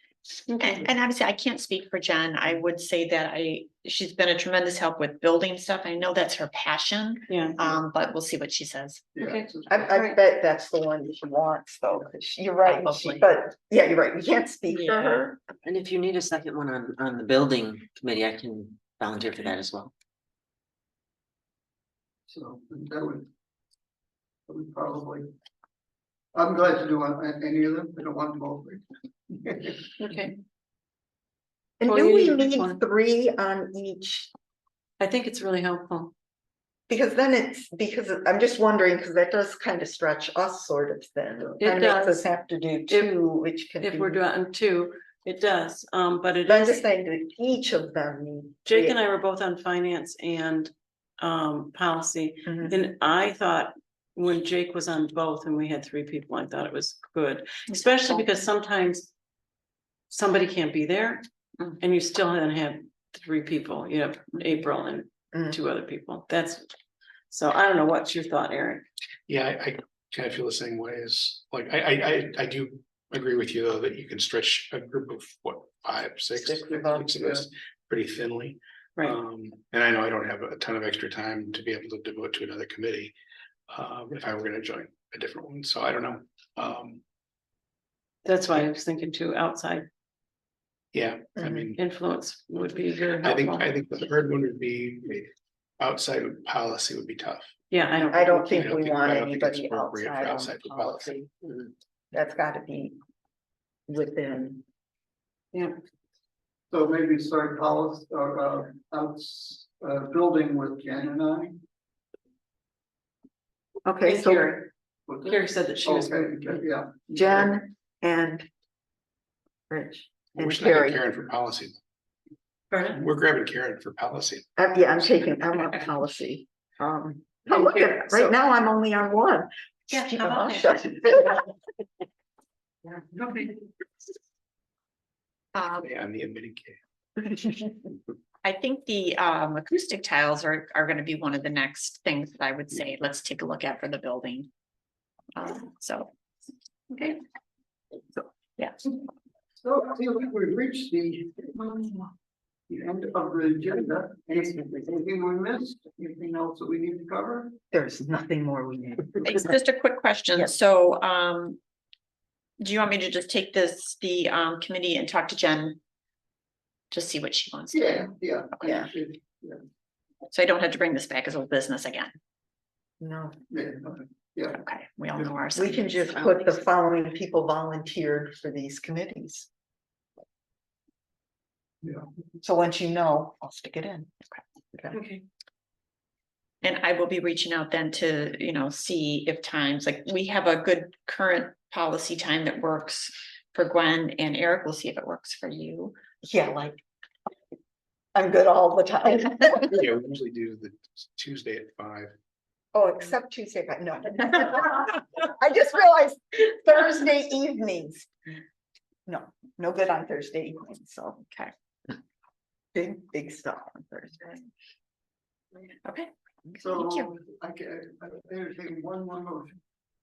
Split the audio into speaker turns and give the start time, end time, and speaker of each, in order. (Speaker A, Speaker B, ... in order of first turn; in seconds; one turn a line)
Speaker A: 0.5-0.8
Speaker B: 0.6-9.1
Speaker A: 7.3-7.6
Speaker C: 9.1-10.0
Speaker A: 9.2-10.2
Speaker D: 9.7-15.4
Speaker B: 12.7-13.2
Speaker B: 14.7-15.2
Speaker E: 15.6-19.9
Speaker C: 22.3-23.3
Speaker C: 24.5-25.3
Speaker C: 26.3-29.9
Speaker B: 30.0-30.3
Speaker D: 31.8-34.3
Speaker A: 31.9-32.8
Speaker A: 35.0-36.1
Speaker D: 36.9-44.2
Speaker A: 41.6-42.3
Speaker A: 42.9-43.2
Speaker A: 43.8-46.8
Speaker D: 46.4-49.0
Speaker A: 48.6-59.1
Speaker D: 52.5-52.8
Speaker B: 57.7-58.2
Speaker A: 60.1-61.2
Speaker A: 61.8-66.7
Speaker A: 67.3-68.8
Speaker F: 69.3-83.1
Speaker D: 76.4-77.0
Speaker C: 76.6-77.5
Speaker F: 83.7-87.0
Speaker A: 88.2-89.9
Speaker F: 90.9-91.8
Speaker D: 91.4-91.7
Speaker A: 91.8-93.7
Speaker F: 93.2-97.5
Speaker A: 97.7-98.7
Speaker D: 98.0-101.3
Speaker F: 98.4-101.2
Speaker D: 102.1-103.0
Speaker D: 103.9-104.6
Speaker C: 106.7-111.6
Speaker D: 113.8-114.6
Speaker A: 114.0-114.7
Speaker C: 115.1-117.6
Speaker A: 115.2-116.6
Speaker D: 117.1-118.5
Speaker D: 119.7-121.0
Speaker F: 120.3-121.8
Speaker A: 122.7-123.0
Speaker F: 122.9-124.5
Speaker D: 124.6-131.4
Speaker A: 127.5-128.3
Speaker A: 129.9-131.1
Speaker B: 135.5-135.9
Speaker F: 135.8-136.8
Speaker B: 138.4-144.5
Speaker B: 145.3-146.1
Speaker B: 146.9-147.2
Speaker B: 148.6-148.9
Speaker C: 149.6-151.7
Speaker C: 152.7-157.6
Speaker D: 157.7-159.4
Speaker B: 159.2-161.6
Speaker B: 162.6-165.8
Speaker B: 166.9-168.1
Speaker C: 167.7-169.6
Speaker B: 170.3-172.1
Speaker D: 173.0-173.3
Speaker C: 173.5-174.6
Speaker B: 174.5-176.1
Speaker D: 175.5-179.5
Speaker D: 182.4-184.1
Speaker A: 184.9-185.2
Speaker B: 186.6-195.9
Speaker D: 196.2-196.8
Speaker D: 198.1-199.8
Speaker F: 199.7-202.1
Speaker D: 202.7-208.1
Speaker D: 209.1-211.2
Speaker B: 211.2-211.5
Speaker D: 212.7-214.4
Speaker B: 215.8-217.1
Speaker C: 216.6-219.6